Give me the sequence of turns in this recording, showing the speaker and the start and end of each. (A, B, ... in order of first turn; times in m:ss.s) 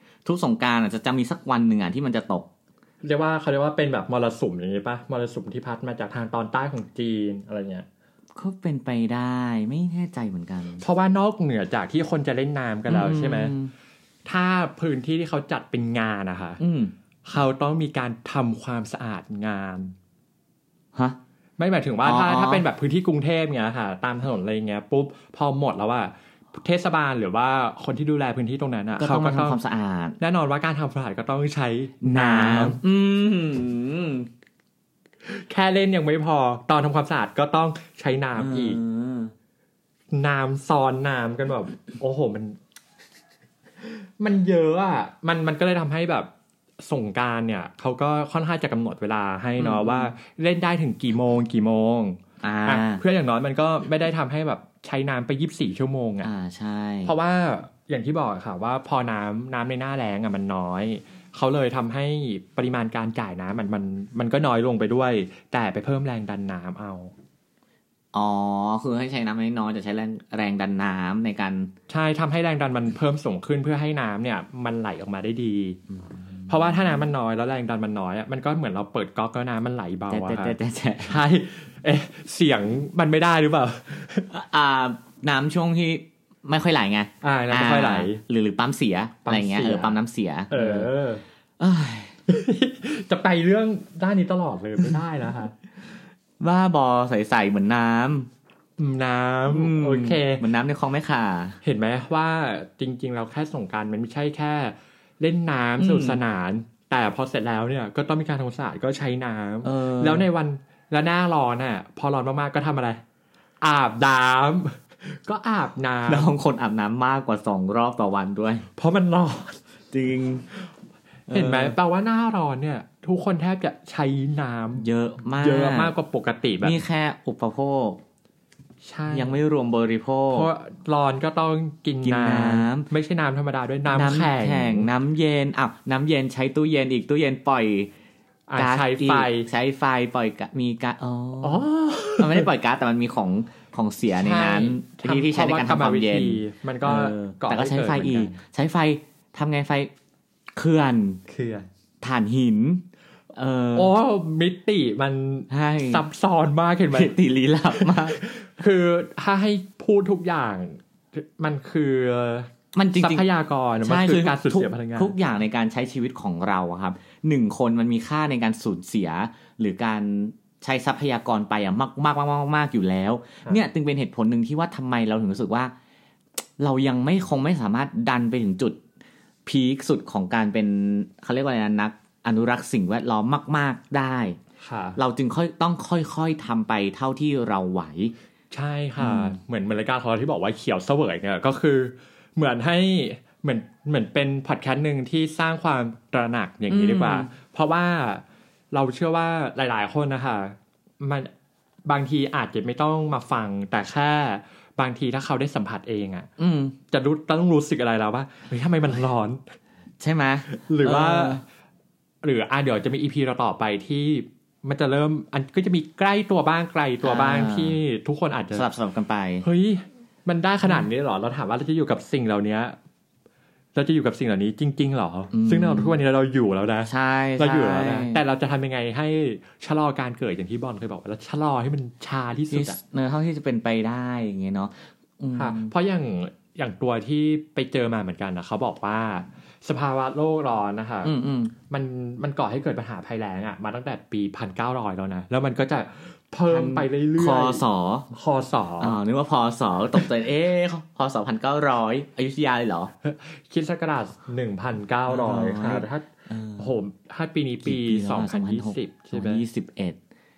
0:00.2-0:02.5 A
0:03.0-0:07.9 B
0:08.4-0:10.8 A
0:10.8-0:13.5 B
0:12.9-0:13.7 A
0:14.2-0:16.6 B
0:16.6-0:16.9 A
0:17.2-0:20.0 B
0:21.6-0:29.6 B
0:22.0-0:22.6 A
0:29.0-0:30.2 A
0:30.2-0:32.8 B
0:32.0-0:34.3 A
0:35.2-0:38.8 B
0:38.4-0:39.3 A
0:40.1-0:42.6 B
0:43.8-0:56.3 B
0:49.6-0:50.1 A
0:52.4-0:53.0 A
0:56.2-0:57.2 A
0:57.0-1:07.1 B
1:08.1-1:11.7 A
1:11.9-1:15.8 B
1:15.9-1:16.8 A
1:16.5-1:24.3 B
1:20.1-1:21.2 A
1:24.3-1:30.9 A
1:27.2-1:28.2 B
1:29.2-1:31.2 B
1:31.6-1:32.2 A
1:32.3-1:35.5 B
1:36.4-1:38.3 A
1:38.8-1:40.4 B
1:39.5-1:41.6 A
1:41.6-1:53.0 B
1:45.8-1:46.2 A
1:49.6-1:50.3 A
1:53.6-1:56.3 B
1:56.1-1:58.7 A
1:58.8-1:59.6 B
1:59.9-2:00.5 A
2:01.3-2:01.8 A
2:01.3-2:04.9 B
2:04.8-2:05.9 A
2:05.4-2:06.8 B
2:06.6-2:08.0 A
2:08.8-2:09.4 B
2:09.1-2:10.5 A
2:10.3-2:14.9 B
2:12.0-2:12.9 A
2:13.9-2:17.9 A
2:18.5-2:19.5 B
2:18.6-2:21.7 A
2:21.4-2:22.5 B
2:22.2-2:29.9 A
2:24.1-2:28.4 B
2:30.6-2:31.2 A
2:31.3-2:31.7 B
2:32.0-2:33.9 A
2:33.8-2:37.1 B
2:35.5-2:36.0 A
2:36.9-2:38.2 A
2:37.7-2:45.1 B
2:42.7-2:43.3 A
2:43.8-2:55.7 A
2:56.6-2:58.8 A
2:59.5-3:04.4 A
3:04.6-3:05.0 B
3:05.0-3:08.1 A
3:08.5-3:21.3 B
3:09.0-3:09.4 A
3:16.7-3:17.3 A
3:21.9-3:26.3 B
3:26.4-3:26.8 A
3:26.9-3:29.4 B
3:30.0-3:31.4 A
3:30.5-3:31.4 B
3:32.2-3:38.7 B
3:37.0-3:37.8 A
3:38.5-3:39.5 A
3:39.4-3:42.8 B
3:43.8-3:52.8 B
3:45.3-3:46.0 A
3:46.8-3:48.2 A
3:52.5-3:55.7 A
3:55.4-4:01.1 B
4:01.0-4:01.5 A
4:01.7-4:09.0 B
4:06.5-4:08.1 A
4:08.8-4:12.9 A
4:13.0-4:16.1 B
4:15.1-4:16.7 A
4:16.6-4:19.4 B
4:17.6-4:20.0 A